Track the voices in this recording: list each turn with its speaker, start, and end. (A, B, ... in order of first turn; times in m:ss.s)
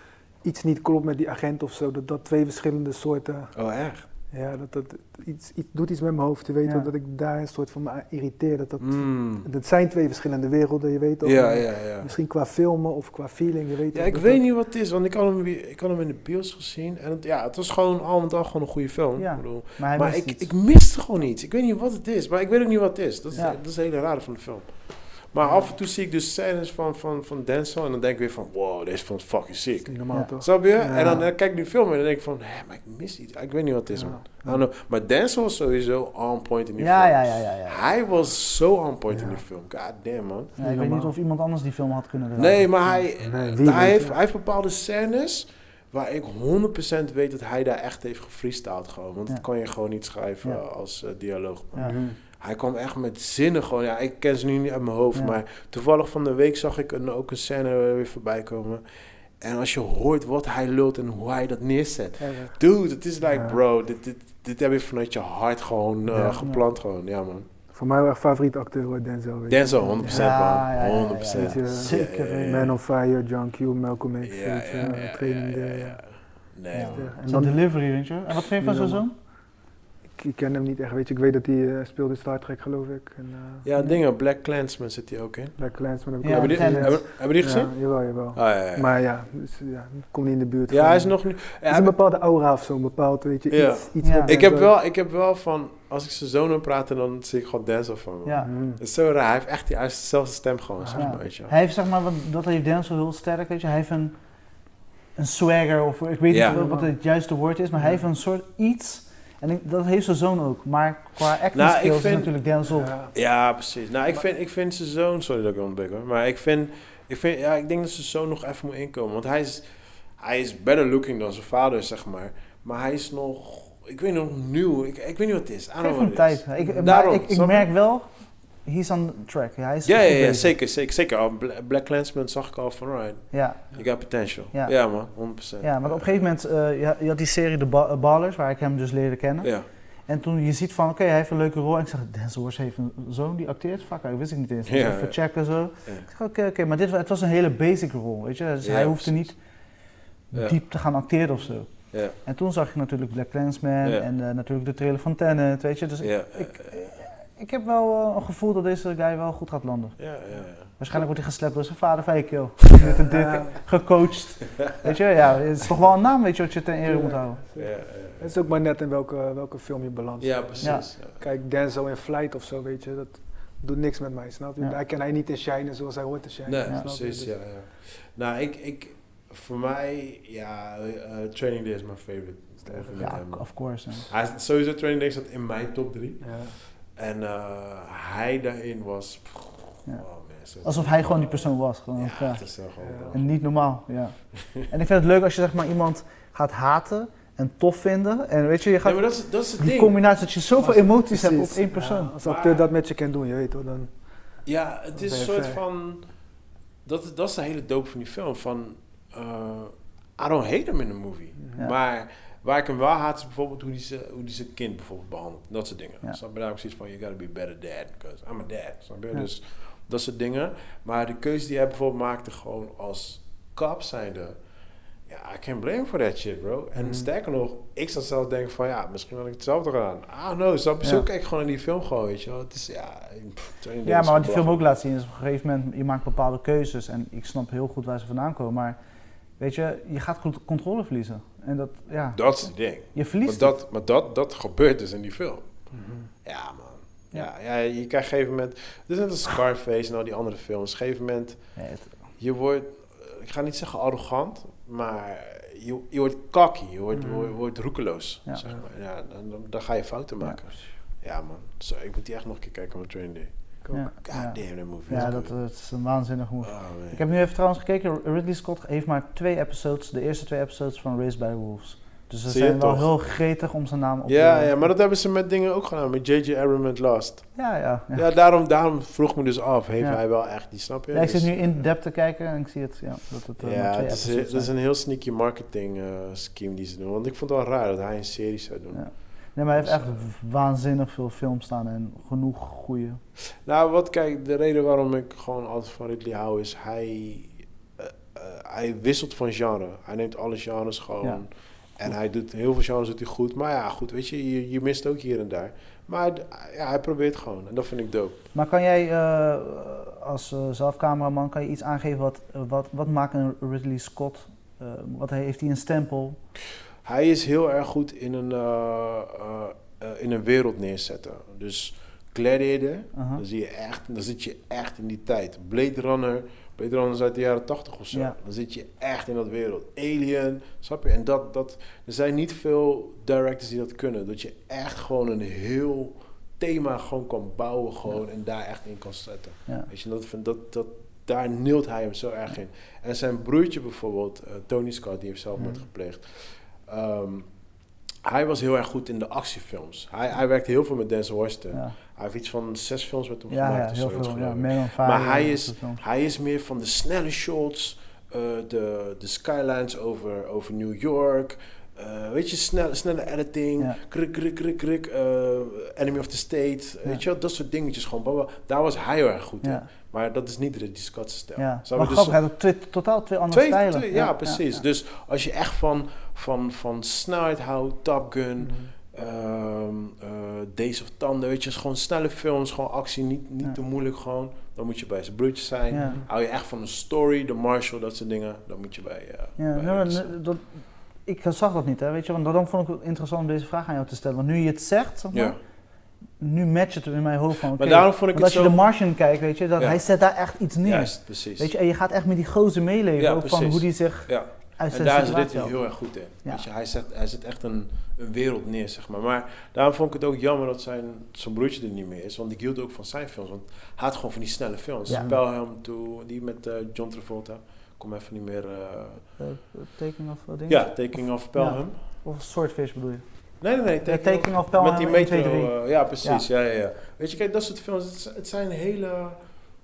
0:00.4-0:03.5 A
0:03.5-0:04.1 B
0:04.3-0:14.4 A
0:08.8-0:09.5 B
0:11.2-0:12.1 B
0:13.9-0:40.6 B
0:19.2-0:20.5 C
0:25.4-0:25.7 A
0:29.9-0:31.3 A
0:30.1-0:30.4 C
0:30.9-0:31.2 C
0:33.9-0:34.6 A
0:36.8-0:37.8 C
0:39.1-0:39.4 A
0:40.6-0:41.1 A
0:40.6-0:43.0 C
0:42.4-0:58.8 B
0:43.2-0:44.2 A
0:51.8-0:52.2 A
0:59.4-1:07.5 B
1:02.2-1:02.6 A
1:03.3-1:03.6 A
1:06.1-1:06.4 A
1:07.7-1:10.4 A
1:09.5-1:12.7 B
1:10.0-1:12.7 C
1:11.3-1:16.0 A
1:14.2-1:17.2 B
1:16.7-1:19.1 C
1:16.9-1:17.7 A
1:18.6-1:19.0 A
1:20.2-1:23.7 A
1:23.6-1:27.8 B
1:25.6-1:34.7 A
1:26.2-1:27.1 C
1:28.3-1:28.9 B
1:30.7-1:32.0 B
1:33.5-1:41.5 B
1:34.0-1:34.4 C
1:38.2-1:38.5 C
1:38.4-1:38.8 A
1:40.8-1:41.1 A
1:41.0-1:44.2 C
1:45.2-1:52.9 C
1:46.3-1:46.6 B
1:46.5-1:46.9 A
1:51.5-1:52.3 B
1:52.7-1:53.1 A
1:53.1-1:59.7 B
2:00.2-2:07.7 B
2:05.8-2:08.1 C
2:06.6-2:06.9 A
2:08.6-2:10.5 C
2:09.8-2:16.2 B
2:13.3-2:14.0 C
2:14.5-2:29.4 C
2:19.4-2:19.7 B
2:24.7-2:25.2 B
2:28.6-2:29.3 B
2:30.3-2:47.4 C
2:31.9-2:32.2 B
2:36.0-2:36.8 B
2:40.0-2:40.8 B
2:42.8-2:43.6 A
2:46.8-2:57.3 A
2:47.6-2:48.3 B
2:50.2-2:51.2 B
2:56.5-3:03.6 B
3:02.6-3:03.1 A
3:03.0-3:04.1 C
3:04.1-3:13.2 B
3:06.2-3:06.5 A
3:10.6-3:12.4 C
3:12.8-3:13.1 A
3:13.1-3:22.1 C
3:18.8-3:20.0 B
3:20.6-3:23.9 A
3:22.2-3:22.6 B
3:24.5-3:26.1 B
3:25.0-3:25.6 A
3:26.8-3:44.4 B
3:45.1-3:54.7 B
3:46.8-3:47.1 A
3:53.8-3:58.8 C
3:59.4-4:03.6 C
4:02.2-4:05.5 B
4:05.7-4:06.1 A
4:06.2-4:11.5 B
4:11.6-4:11.9 C
4:12.2-4:23.3 B
4:17.0-4:17.3 A
4:23.6-4:23.9 A
4:23.7-4:34.7 C
4:24.0-4:25.3 B
4:26.4-4:27.0 B
4:32.3-4:32.9 B
4:34.1-4:37.4 B
4:37.4-4:38.0 C
4:37.9-4:41.6 B
4:39.8-4:44.5 C
4:43.4-4:50.0 B
4:48.7-4:53.0 C
4:53.4-5:08.2 B
5:08.3-5:16.2 C
5:16.8-5:47.3 B
5:23.0-5:23.2 C
5:48.0-6:12.2 B
5:53.3-5:55.8 C
6:11.4-6:14.6 C
6:13.3-6:30.1 B
6:18.4-6:18.7 A
6:25.7-6:26.0 C
6:29.4-6:30.5 C
6:31.0-6:35.4 C
6:35.1-6:35.4 B
6:36.2-6:45.6 C
6:37.6-6:38.6 B
6:40.6-6:41.5 B
6:43.0-6:59.0 B
6:54.9-6:55.2 A
6:59.2-7:03.0 C
7:00.5-7:01.8 B
7:03.4-7:09.2 B
7:03.9-7:06.2 C